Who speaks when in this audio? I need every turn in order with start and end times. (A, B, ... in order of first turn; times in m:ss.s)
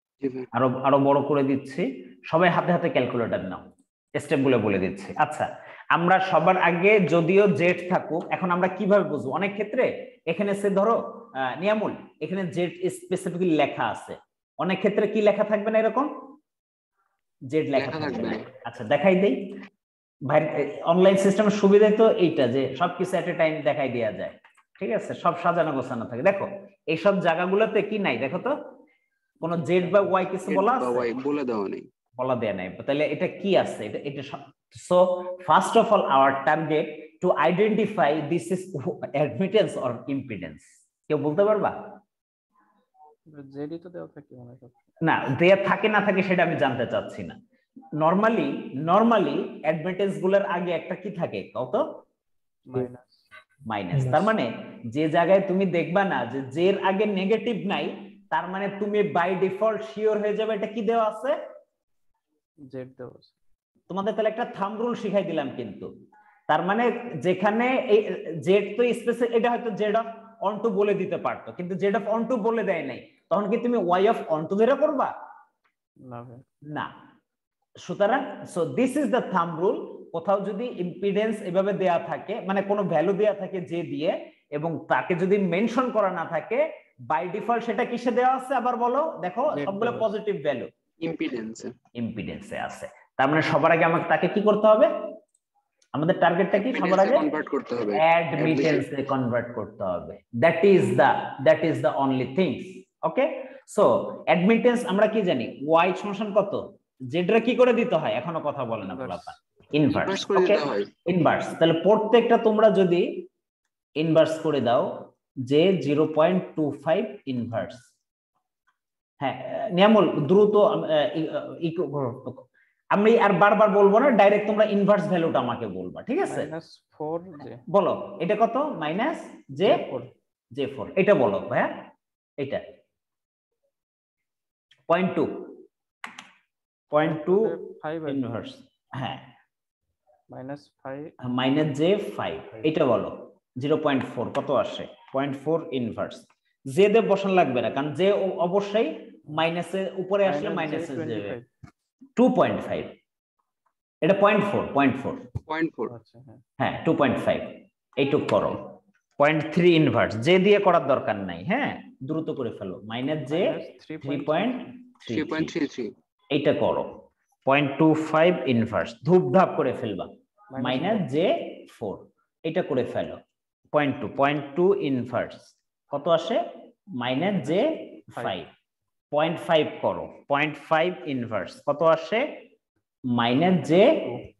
0:00.2-0:00.5 A
0:00.5-0:03.6 B
0:04.2-0:16.1 B
0:17.5-0:19.4 B
0:17.8-0:18.5 A
0:20.3-0:28.5 B
0:29.4-0:31.1 B
0:29.4-0:30.1 C
0:30.4-0:31.9 A
0:32.2-0:41.7 B
0:43.3-0:44.8 C
0:45.0-0:47.4 B
0:48.0-0:51.8 B
0:52.6-0:53.2 C
0:53.7-1:01.4 B
1:02.7-1:03.3 C
1:03.9-1:05.9 B
1:06.5-1:15.1 B
1:16.0-1:16.4 C
1:17.8-1:30.7 B
1:29.5-1:30.1 C
1:31.0-1:31.7 A
1:32.0-1:34.9 B
1:35.9-1:37.2 B
1:36.5-1:38.8 A
1:38.0-1:53.2 B
1:48.8-1:49.3 C
1:49.9-1:50.9 A
1:54.0-1:54.9 B
1:55.4-1:57.9 B
1:59.2-2:02.4 B
2:02.9-2:06.5 B
2:06.2-2:07.6 C
2:07.7-2:09.8 B
2:09.6-2:10.1 C
2:10.5-2:11.7 B
2:14.9-2:15.5 B
2:16.9-2:19.2 B
2:17.0-2:18.3 C
2:20.3-2:21.1 C
2:21.2-2:31.4 B
2:30.2-2:31.5 C
2:32.2-2:32.9 B
2:34.0-2:35.2 B
2:35.5-2:35.9 A
2:35.9-2:36.4 C
2:36.6-2:45.5 B
2:43.2-2:44.7 C
2:45.1-2:45.9 A
2:46.3-2:46.9 B
2:47.4-2:53.2 B
2:50.5-2:51.1 C
2:53.7-2:56.4 B
2:57.0-2:58.5 B
2:57.4-2:58.4 C
2:59.1-3:02.2 B
3:03.1-3:04.0 B
3:03.6-3:04.2 C